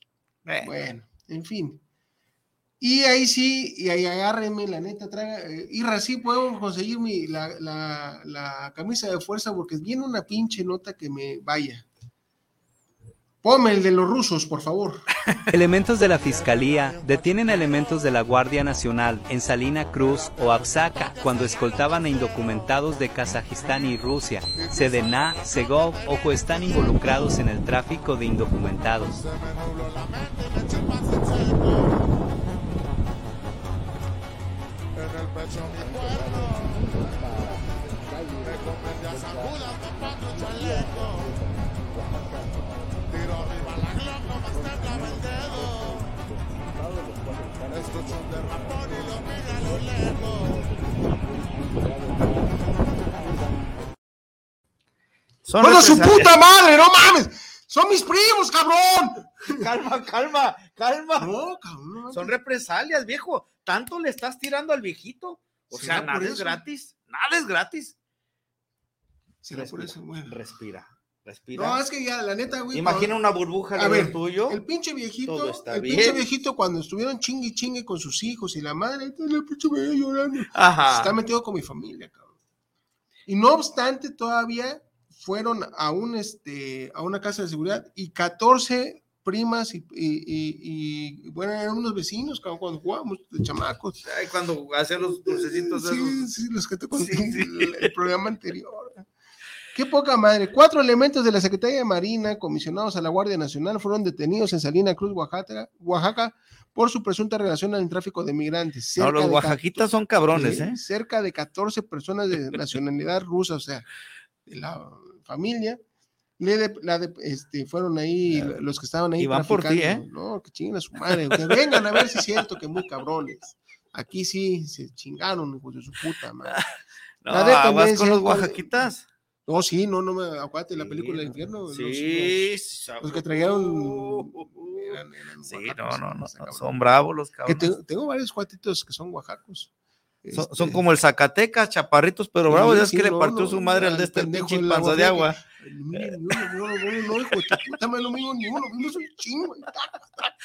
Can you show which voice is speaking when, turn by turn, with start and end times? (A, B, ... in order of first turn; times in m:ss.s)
0:00.6-0:01.8 A
0:02.8-0:11.9 A
0:13.4-0:15.0 A
0:15.5-0:29.2 B
0:55.4-0:56.3 C
0:55.6-0:59.6 A
0:59.6-1:01.3 C
1:01.2-1:02.4 A
1:02.1-1:08.0 C
1:05.7-1:06.6 A
1:09.4-1:10.4 A
1:09.5-1:11.8 C
1:11.5-1:13.1 A
1:12.7-1:14.6 C
1:13.7-1:22.4 A
1:15.3-1:16.3 C
1:20.5-1:21.1 C
1:23.3-1:34.0 A
1:34.0-1:36.3 C
1:35.3-1:39.1 A
1:37.0-1:37.9 C
1:39.7-1:53.9 A
1:49.0-1:50.8 C
1:54.5-1:55.8 A
1:56.4-2:06.6 A
1:59.2-2:00.0 C
2:01.3-2:01.7 C
2:07.2-2:09.0 C
2:07.3-2:08.8 A
2:09.5-2:12.5 A
2:10.8-2:17.7 C
2:13.0-2:16.7 A
2:17.4-2:19.7 A
2:20.2-2:20.8 A
2:20.3-2:25.4 C
2:22.5-2:30.3 A